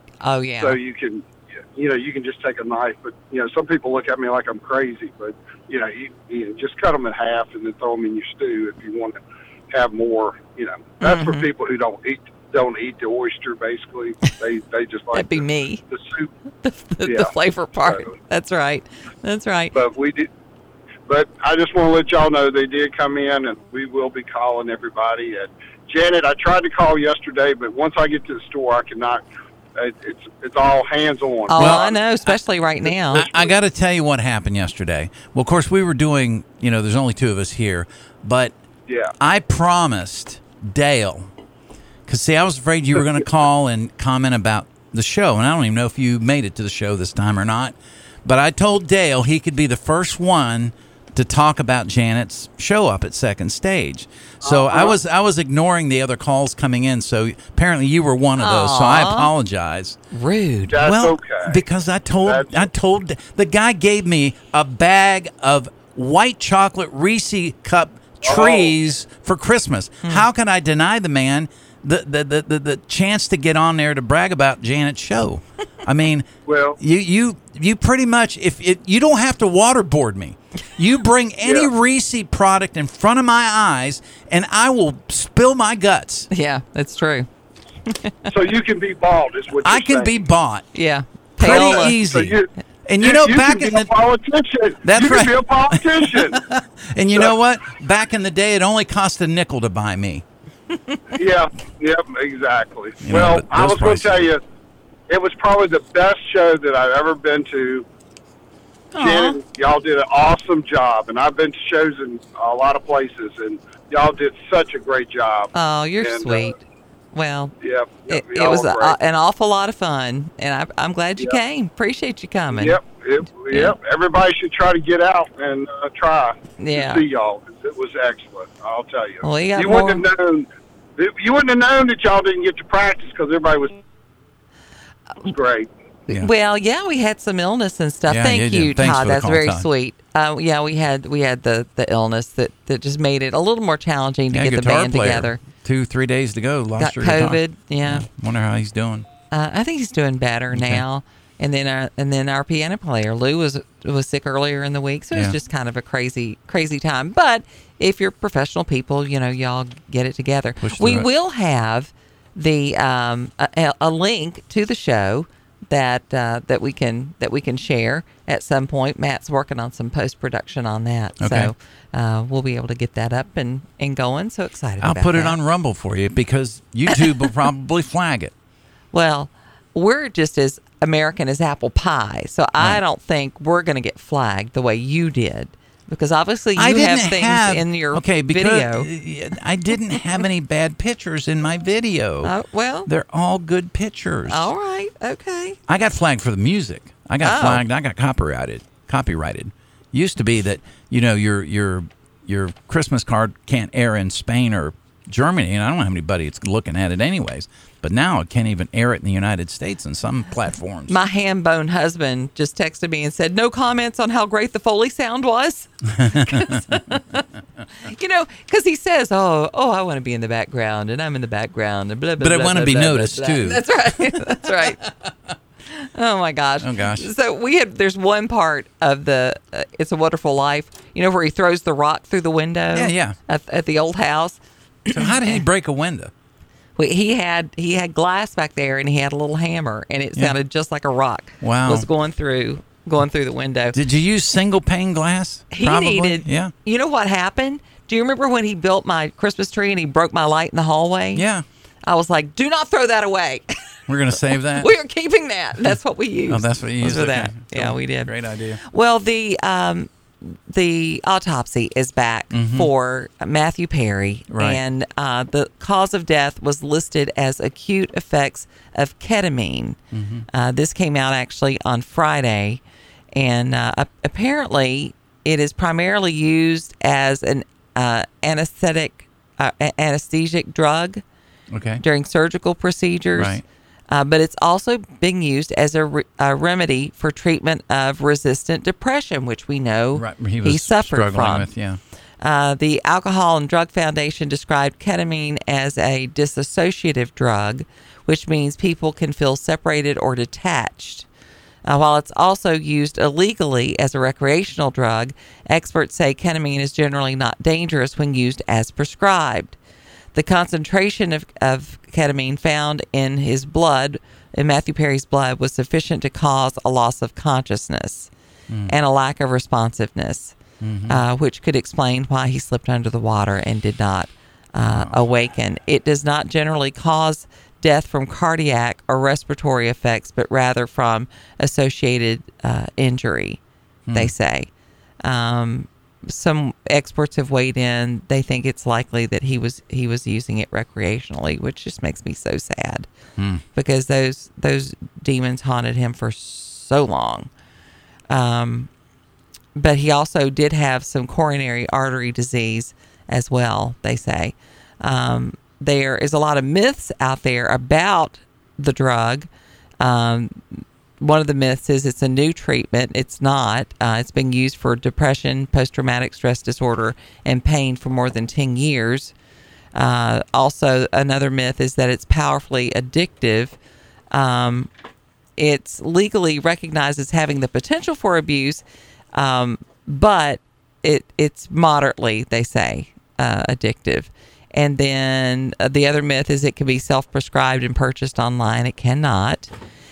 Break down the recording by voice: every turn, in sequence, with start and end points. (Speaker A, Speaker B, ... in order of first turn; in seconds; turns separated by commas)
Speaker A: 0.2-0.8, Speaker B: 0.6-9.2, Speaker B: 9.7-16.3, Speaker A: 11.0-11.5, Speaker A: 15.1-15.8, Speaker A: 16.6-19.8, Speaker B: 17.1-18.1, Speaker B: 19.7-20.3, Speaker B: 21.1-29.2, Speaker B: 29.8-32.0, Speaker A: 31.5-33.3, Speaker C: 31.6-31.9, Speaker B: 32.9-33.5, Speaker C: 33.1-38.5, Speaker B: 38.9-39.1, Speaker C: 39.2-41.3, Speaker C: 42.1-60.0, Speaker B: 43.0-43.2, Speaker B: 54.4-55.0, Speaker A: 58.4-59.3, Speaker A: 60.1-60.8, Speaker B: 60.7-61.6, Speaker C: 60.8-86.3, Speaker B: 62.2-62.7, Speaker B: 68.2-68.8, Speaker B: 76.5-76.8, Speaker B: 81.4-81.7, Speaker A: 86.3-87.3, Speaker B: 88.3-90.3, Speaker C: 89.6-90.7, Speaker A: 90.7-92.0, Speaker C: 91.4-93.9, Speaker B: 91.4-96.5, Speaker C: 94.8-100.2, Speaker B: 97.1-97.3, Speaker B: 101.2-104.4, Speaker C: 103.0-104.3, Speaker B: 105.1-107.9, Speaker A: 108.9-109.4, Speaker B: 109.0-116.5, Speaker A: 115.5-116.6, Speaker A: 117.1-117.5, Speaker B: 117.6-119.0, Speaker A: 118.1-122.8, Speaker B: 122.5-133.8, Speaker A: 123.5-123.8, Speaker A: 126.6-127.0, Speaker A: 129.2-130.0, Speaker B: 135.2-135.7, Speaker A: 136.1-145.4, Speaker C: 138.1-139.7, Speaker C: 144.3-149.1, Speaker A: 146.8-148.1, Speaker A: 149.3-175.4, Speaker C: 150.5-150.8, Speaker C: 160.6-161.1, Speaker C: 171.2-171.5, Speaker C: 174.8-178.3, Speaker A: 176.9-177.3, Speaker A: 178.9-188.9, Speaker C: 186.6-192.3, Speaker A: 192.2-192.9, Speaker C: 192.9-194.5, Speaker A: 194.3-195.6, Speaker C: 195.7-211.0, Speaker A: 197.2-197.6, Speaker A: 210.9-217.2, Speaker C: 215.9-216.8, Speaker A: 217.8-224.8, Speaker C: 222.2-224.7, Speaker A: 225.8-235.4, Speaker C: 226.6-227.1, Speaker C: 232.7-233.2, Speaker C: 234.9-236.1, Speaker A: 236.8-243.8, Speaker C: 241.4-241.9, Speaker C: 243.7-246.5, Speaker A: 245.5-251.2, Speaker C: 251.1-251.4, Speaker A: 251.8-253.5, Speaker C: 253.9-254.7, Speaker A: 254.3-269.8, Speaker C: 256.3-258.6, Speaker C: 262.3-262.7, Speaker C: 264.3-264.6, Speaker C: 269.9-270.3, Speaker A: 270.3-272.6, Speaker A: 273.1-281.0, Speaker C: 281.5-281.8, Speaker A: 281.8-291.5, Speaker C: 283.1-283.4, Speaker C: 289.9-291.8, Speaker A: 292.2-301.1, Speaker A: 301.6-309.6, Speaker A: 310.1-318.1, Speaker C: 318.5-318.7, Speaker A: 318.7-320.4, Speaker C: 320.6-321.0, Speaker A: 320.9-333.4, Speaker C: 324.6-325.0, Speaker C: 333.9-334.1, Speaker A: 333.9-334.5, Speaker A: 335.0-342.9, Speaker C: 343.2-343.4, Speaker A: 343.6-347.3, Speaker A: 348.1-348.7, Speaker A: 349.6-359.3, Speaker A: 359.8-360.4, Speaker A: 361.0-369.1, Speaker A: 369.8-373.6, Speaker A: 374.1-374.7, Speaker A: 375.4-378.6, Speaker A: 379.1-389.5